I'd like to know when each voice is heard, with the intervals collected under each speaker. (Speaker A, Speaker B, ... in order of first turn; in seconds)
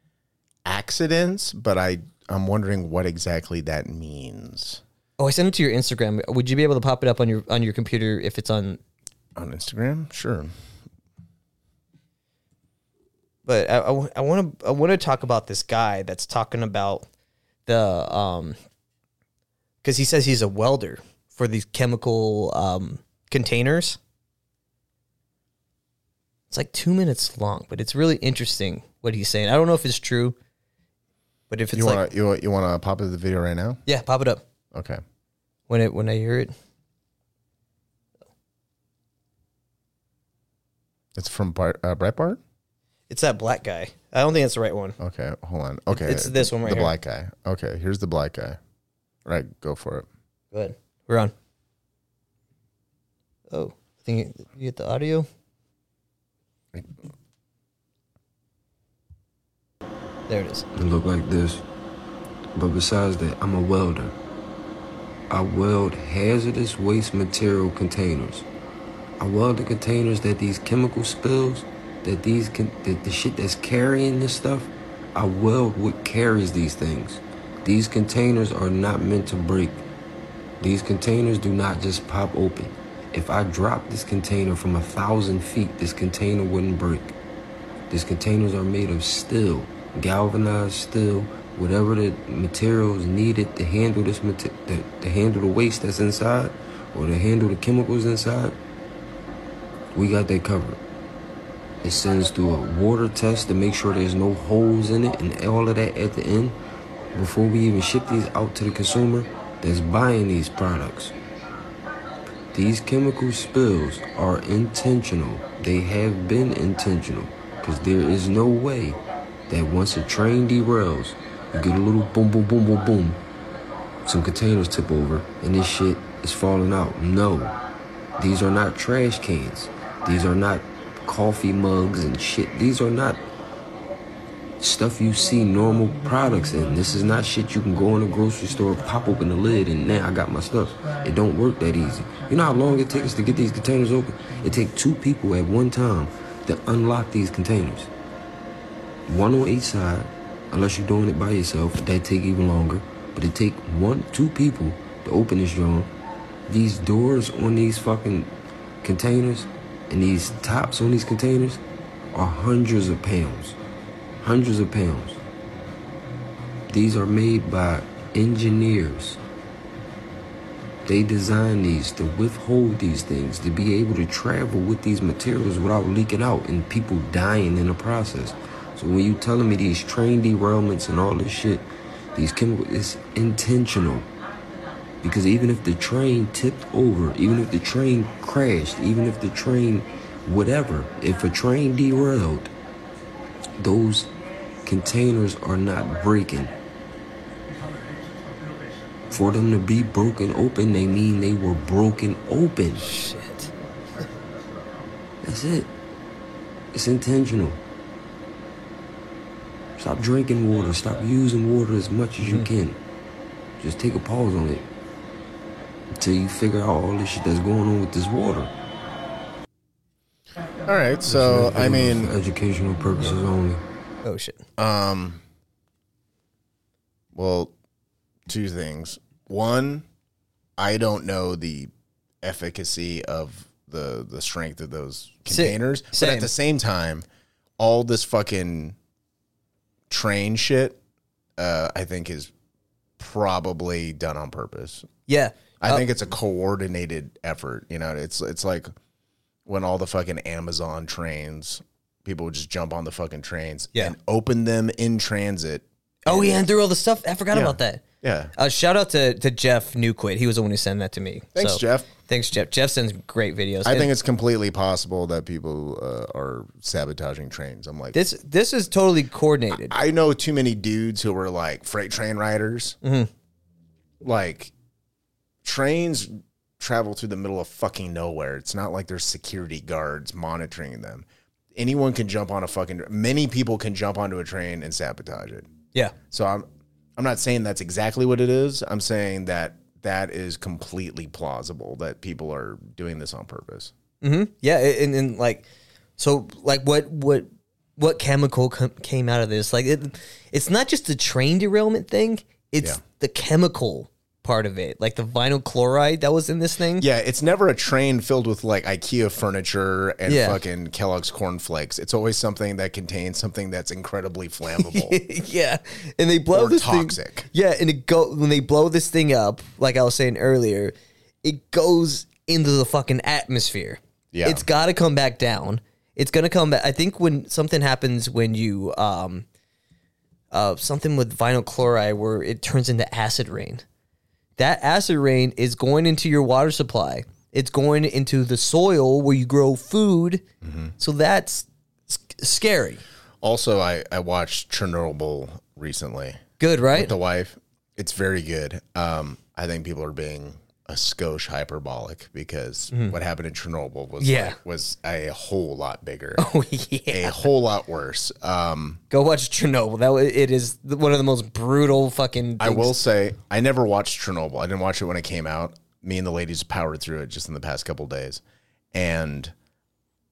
Speaker A: 0.7-4.8, 9.4-10.5, 31.7-33.8, 34.7-35.0, 41.1-42.4, 45.0-48.6, 49.2-50.1, 220.6-222.1, 224.6-225.2, 227.2-227.5, 228.3-229.9, 230.6-231.7, 232.2-237.1, 237.6-238.8, 239.9-240.8, 241.4-242.3, 243.0-244.9, 245.6-248.7, 249.5-256.4, 257.3-258.3, 261.4-261.9, 263.6-268.0, 269.5-272.8, 274.0-274.5, 275.4-285.5, 286.1-293.7, 306.8-315.0, 316.3-317.3, 324.1-324.4, 340.4-340.7, 343.2-346.2, 346.7-356.3, 356.9-358.8, 362.4-368.2, 368.7-369.3
Speaker B: 5.2-8.8, 13.5-17.1, 17.7-18.6, 19.8-24.0, 26.5-30.4, 31.5-32.1, 33.9-34.4, 35.7-36.5, 43.1-45.0, 45.9-46.9, 50.5-51.3, 53.5-55.3, 60.3-60.6, 202.8-203.5, 224.0-224.4, 235.3-236.3, 245.1-245.8, 256.1-257.8, 258.4-263.9, 267.9-269.8, 272.8-273.1, 294.0-295.5, 296.0-306.9, 310.1-310.4, 314.5-329.2, 330.3-333.6, 334.4-340.2, 340.8-342.8, 346.4-346.9, 354.0-354.4, 356.2-357.3, 358.9-362.7
Speaker C: 60.8-61.6, 62.5-64.1, 65.3-68.5, 69.2-79.8, 80.6-87.1, 87.9-98.6, 99.9-100.8, 101.8-106.6, 107.1-111.1, 112.5-123.2, 124.1-127.6, 128.2-133.2, 134.6-147.9, 149.1-155.9, 156.5-158.3, 158.8-161.6, 162.1-163.6, 164.2-165.2, 166.7-169.2, 170.9-184.1, 185.0-192.5, 193.6-194.1, 194.7-196.5, 199.1-202.9, 205.2-205.7, 206.7-207.6, 209.8-212.8, 213.6-214.7, 215.9-218.5, 221.1-223.6